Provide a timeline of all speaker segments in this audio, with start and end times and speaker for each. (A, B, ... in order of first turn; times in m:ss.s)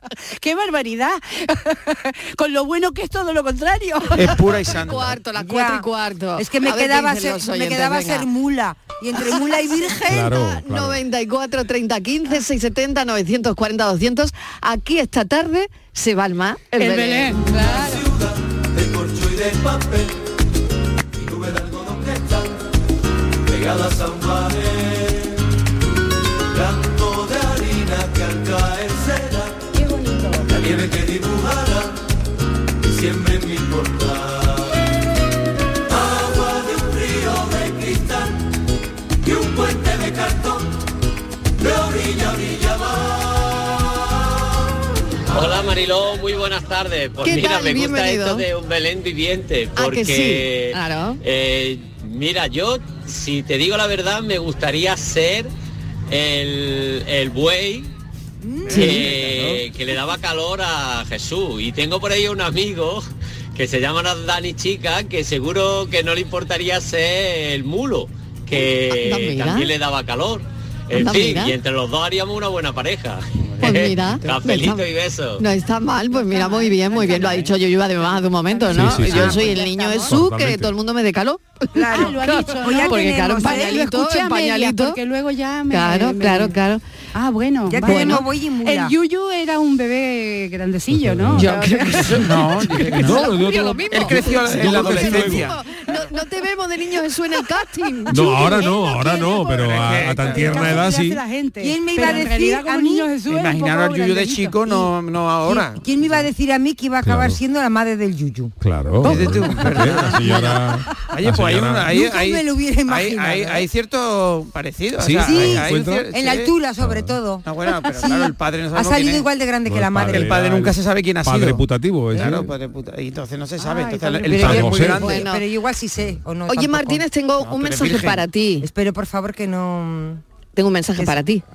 0:00.4-0:04.6 A
0:04.1-0:05.2 B
0:04.6-0:08.3 C
0:05.3-0:10.1 D
0:09.2-0:17.5 C
0:10.1-0:11.0 E
0:16.8-0:18.1 A
0:30.7-0:31.2 B
0:45.3-0:55.5 F
0:47.2-0:48.4 C
0:49.8-0:51.2 C
0:56.1-0:57.9 F
0:58.4-0:59.1 D
0:58.6-0:59.6 B
0:58.7-1:15.4 F
1:08.9-1:09.7 C
1:10.9-1:11.6 C
1:13.4-1:13.9 B
1:13.6-1:14.8 C
1:15.4-1:25.0 C
1:16.2-1:17.4 A
1:18.2-1:18.9 A
1:18.7-1:19.4 E
1:18.8-1:20.2 D
1:20.0-1:20.7 E
1:21.7-1:23.8 D
1:21.9-1:26.5 A
1:25.7-1:26.8 C
1:27.1-1:32.5 A
1:27.7-1:28.9 D
1:27.8-1:28.2 C
1:30.9-1:31.5 E
1:31.3-1:38.8 C
1:32.0-1:33.3 B
1:32.7-1:35.5 E
1:33.9-1:35.6 B
1:38.1-1:41.2 E
1:38.3-1:44.8 A
1:39.6-1:40.8 B
1:41.6-1:43.1 D
1:43.3-1:46.3 B
1:45.4-1:48.5 D
1:47.0-1:47.4 E
1:48.6-1:51.9 E
1:49.0-1:50.5 B
1:51.1-1:56.5 B
1:51.8-1:53.7 D
1:55.0-1:56.1 E
1:55.2-2:00.3 D
1:56.8-1:57.2 E
1:57.4-1:59.3 B
1:59.6-2:02.5 E
2:00.1-2:05.2 B
2:03.6-2:07.0 D
2:04.3-2:05.1 E
2:05.0-2:05.4 C
2:06.5-2:08.7 C
2:07.4-2:08.2 B
2:08.6-2:10.2 D
2:10.5-2:11.4 C